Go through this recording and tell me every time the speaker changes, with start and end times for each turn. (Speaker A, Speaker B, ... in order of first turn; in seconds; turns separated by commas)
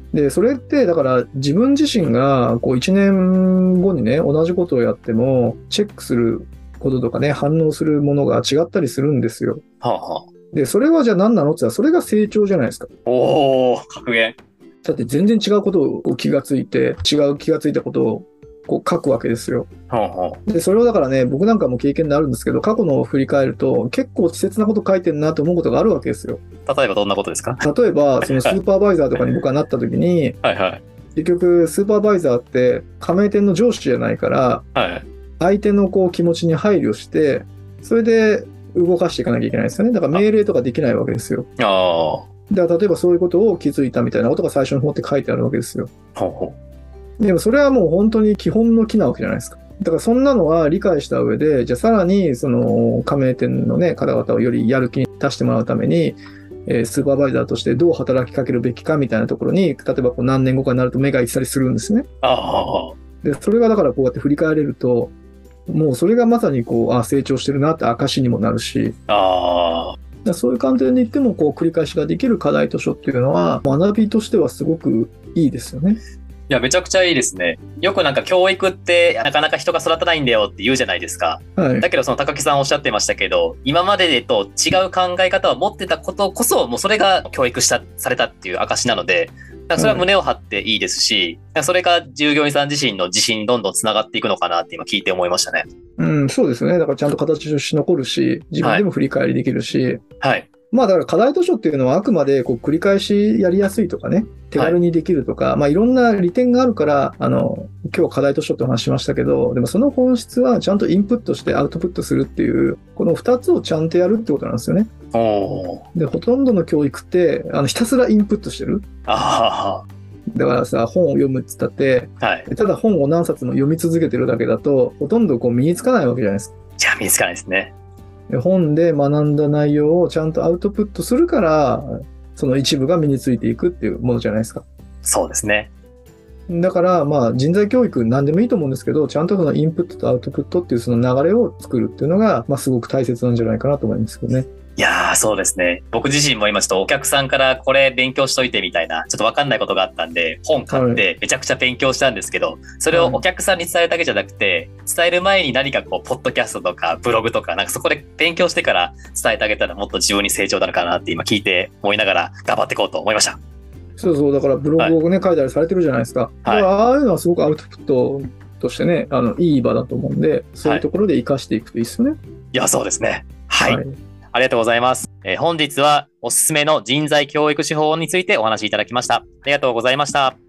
Speaker A: 0.1-9.6, Speaker B: 9.8-10.3, Speaker A: 10.5-12.9, Speaker B: 13.1-14.4, Speaker A: 14.8-19.7, Speaker B: 19.9-20.4, Speaker A: 20.5-26.4, Speaker B: 26.7-27.6, Speaker A: 27.6-30.4, Speaker B: 28.2-28.6, Speaker B: 30.4-30.8, Speaker A: 31.1-34.6, Speaker B: 34.8-35.0, Speaker A: 35.4-41.5, Speaker B: 41.6-42.3, Speaker A: 42.5-45.9, Speaker B: 46.1-46.6, Speaker A: 47.2-62.0, Speaker B: 62.2-63.0, Speaker A: 63.2-65.1, Speaker A: 65.7-69.0, Speaker B: 69.1-70.0, Speaker A: 70.2-76.0, Speaker B: 76.5-95.7, Speaker A: 81.6-81.9, Speaker A: 89.8-90.1, Speaker A: 96.0-100.0, Speaker B: 100.2-100.5, Speaker A: 100.7-114.9, Speaker B: 115.1-115.8, Speaker A: 115.9-118.8, Speaker B: 119.1-119.9, Speaker A: 120.3-126.5, Speaker B: 122.2-122.5, Speaker B: 126.8-127.7, Speaker A: 128.3-134.7, Speaker B: 135.0-135.7, Speaker A: 136.5-144.5, Speaker B: 144.8-163.4, Speaker A: 150.7-151.0, Speaker A: 152.9-153.2, Speaker A: 164.0-172.2, Speaker B: 166.4-166.7, Speaker B: 172.5-173.8, Speaker A: 173.6-173.9, Speaker B: 174.3-180.3